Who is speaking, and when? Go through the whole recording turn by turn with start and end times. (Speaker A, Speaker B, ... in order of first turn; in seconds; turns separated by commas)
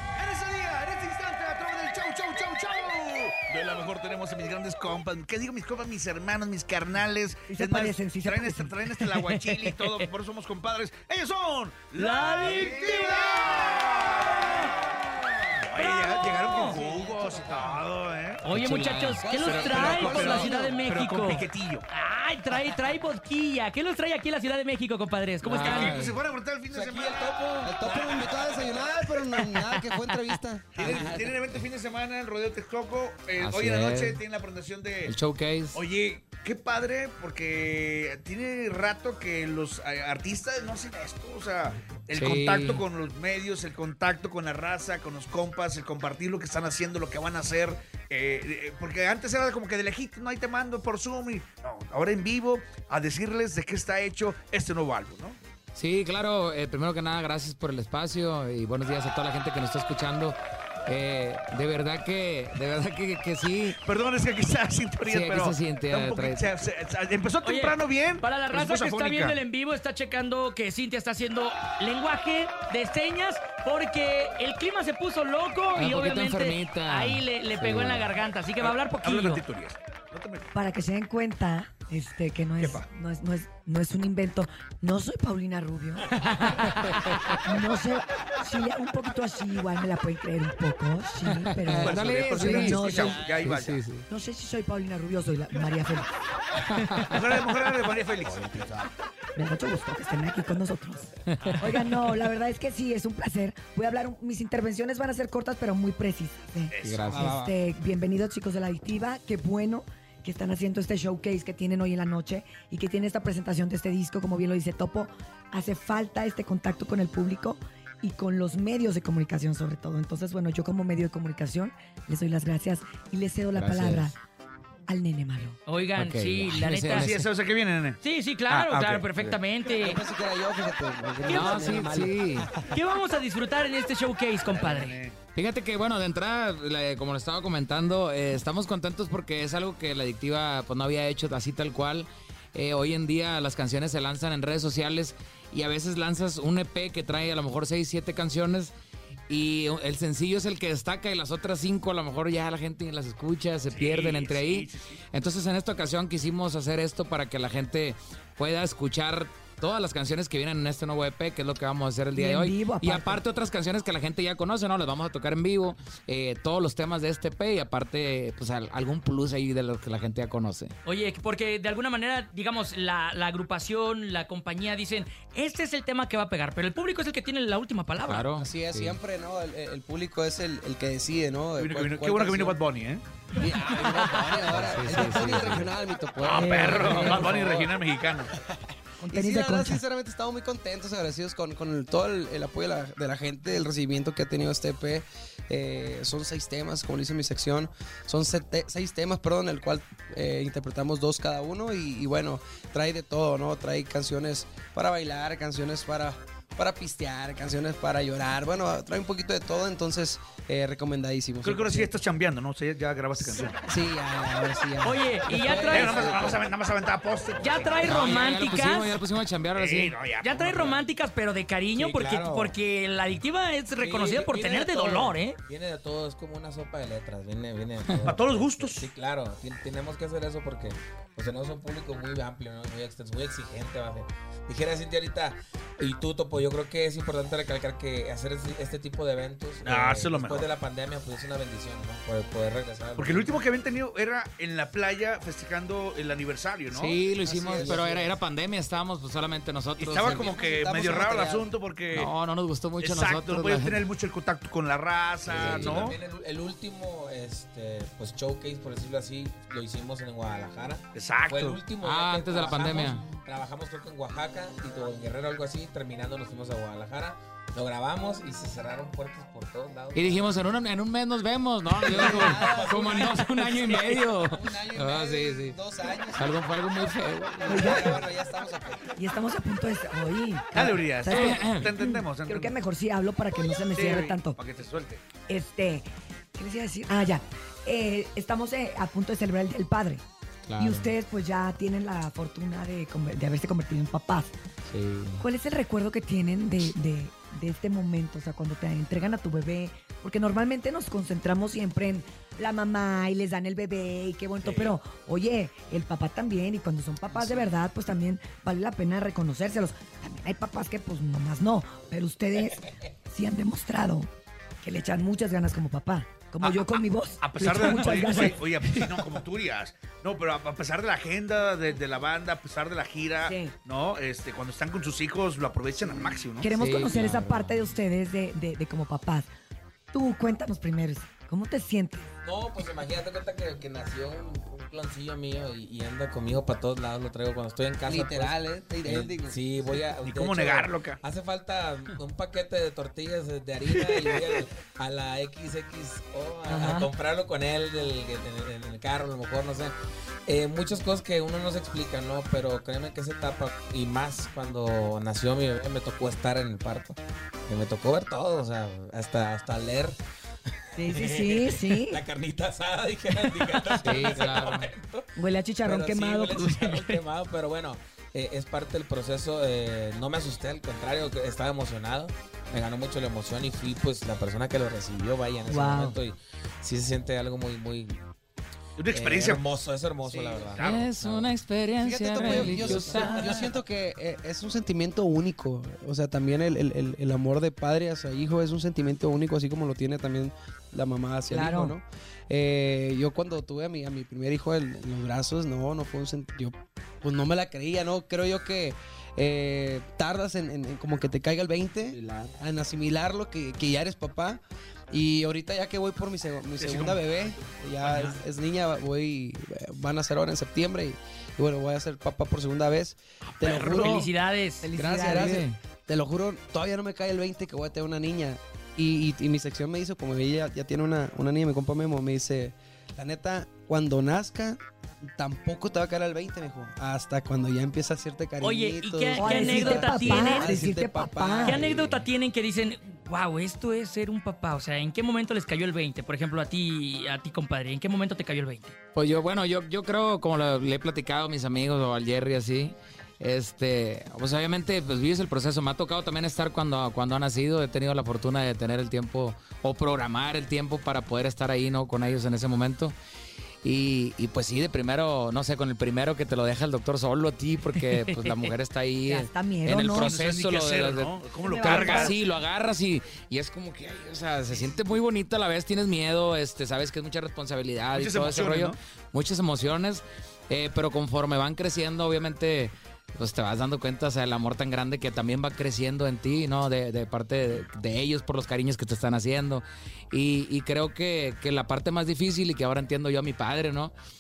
Speaker A: 0.2-14.8, Speaker B: 7.5-8.8, Speaker C: 9.4-10.0, Speaker C: 11.9-14.7, Speaker A: 15.6-18.4, Speaker C: 15.8-16.8, Speaker D: 16.9-17.6, Speaker C: 18.4-26.1, Speaker E: 18.5-19.2, Speaker F: 19.2-20.8, Speaker A: 19.4-21.9, Speaker E: 25.4-26.2, Speaker A: 25.5-27.4, Speaker D: 26.7-28.8, Speaker F: 27.6-31.3, Speaker C: 29.8-30.1, Speaker A: 30.8-35.1, Speaker D: 30.8-31.3, Speaker E: 33.4-34.2, Speaker E: 35.1-35.8, Speaker A: 35.7-55.4, Speaker E: 42.1-42.8, Speaker E: 55.8-63.8, Speaker A: 63.8-69.4, Speaker E: 65.0-66.7, Speaker C: 67.4-79.4, Speaker E: 75.8-78.1, Speaker A: 78.6-80.5, Speaker B: 80.5-86.7, Speaker A: 82.6-82.9, Speaker C: 86.1-87.1, Speaker E: 86.7-87.4, Speaker B: 87.4-93.5, Speaker E: 91.2-94.1, Speaker A: 91.8-93.8, Speaker B: 94.1-96.1, Speaker E: 96.6-97.2, Speaker A: 97.0-98.7, Speaker B: 99.4-124.2, Speaker E: 101.3-101.8, Speaker A: 106.7-107.4, Speaker E: 106.8-107.4, Speaker F: 107.1-107.5, Speaker E: 123.5-124.1, Speaker B: 124.9-125.6, Speaker C: 125.7-127.2, Speaker E: 126.0-127.3, Speaker A: 126.9-129.4, Speaker C: 128.0-130.0, Speaker F: 129.7-132.8, Speaker C: 131.3-131.8, Speaker E: 131.3-132.5, Speaker C: 132.6-135.0, Speaker A: 134.5-135.1, Speaker E: 135.3-148.7, Speaker E: 149.3-170.7, Speaker A: 153.7-154.9, Speaker B: 162.2-163.2, Speaker C: 170.9-178.3, Speaker E: 178.0-179.0, Speaker F: 178.3-182.6, Speaker A: 181.6-183.1, Speaker F: 183.3-187.7, Speaker E: 184.5-185.7, Speaker A: 186.2-188.3, Speaker B: 186.3-187.5, Speaker B: 189.0-189.8, Speaker F: 189.1-211.9, Speaker A: 211.4-213.6, Speaker F: 213.6-216.4, Speaker C: 214.8-216.1, Speaker A: 215.7-218.0, Speaker D: 216.1-216.5, Speaker D: 217.0-218.0, Speaker C: 217.4-219.0, Speaker E: 217.8-220.0, Speaker A: 219.6-220.8, Speaker C: 220.2-225.4, Speaker D: 221.8-222.6, Speaker D: 223.8-243.4, Speaker A: 228.1-228.9, Speaker A: 239.6-240.5, Speaker A: 243.0-247.0, Speaker E: 246.7-250.3, Speaker F: 247.2-247.9, Speaker D: 247.6-248.1, Speaker A: 249.8-252.1, Speaker F: 250.0-251.5, Speaker E: 251.9-253.8, Speaker A: 252.8-256.0, Speaker D: 255.3-270.3, Speaker E: 255.3-255.8, Speaker A: 260.9-261.6, Speaker E: 261.8-263.1, Speaker E: 269.9-275.6, Speaker D: 271.9-273.2, Speaker F: 271.9-273.3, Speaker F: 274.2-276.4, Speaker E: 276.1-278.0, Speaker F: 277.4-279.0, Speaker B: 277.5-278.0, Speaker B: 279.0-284.4, Speaker A: 280.6-282.6, Speaker E: 281.1-281.7, Speaker A: 283.8-285.0, Speaker B: 285.3-290.0, Speaker E: 290.5-290.9, Speaker B: 290.6-294.3, Speaker E: 294.7-295.2, Speaker B: 295.2-314.1, Speaker D: 304.4-304.7, Speaker D: 307.1-307.4, Speaker B: 314.6-318.8, Speaker A: 316.4-326.5, Speaker B: 323.2-323.5, Speaker B: 326.4-329.3, Speaker E: 326.6-327.3, Speaker D: 327.0-327.5, Speaker B: 329.9-332.1, Speaker D: 332.2-349.8, Speaker F: 337.9-339.4, Speaker A: 340.0-341.0, Speaker B: 346.5-346.9, Speaker D: 350.3-360.0, Speaker B: 360.8-362.0, Speaker D: 360.8-365.1, Speaker E: 363.8-364.7, Speaker B: 365.2-367.0, Speaker D: 365.6-378.0, Speaker B: 375.5-376.0, Speaker A: 378.8-379.4, Speaker D: 378.9-381.4, Speaker A: 380.1-380.9, Speaker E: 380.6-383.4, Speaker F: 381.8-404.4, Speaker D: 382.1-383.5, Speaker B: 391.3-391.8, Speaker D: 401.9-402.4, Speaker F: 404.9-414.1, Speaker A: 406.6-408.2, Speaker A: 413.3-414.1, Speaker C: 413.7-414.7, Speaker B: 414.6-415.4, Speaker F: 414.7-432.0, Speaker E: 415.1-415.6, Speaker C: 428.4-430.6, Speaker B: 429.2-431.6, Speaker C: 431.4-438.8, Speaker E: 438.9-452.9, Speaker E: 453.6-483.9, Speaker B: 459.1-460.1, Speaker A: 459.9-462.2, Speaker B: 461.4-462.2, Speaker A: 467.9-468.8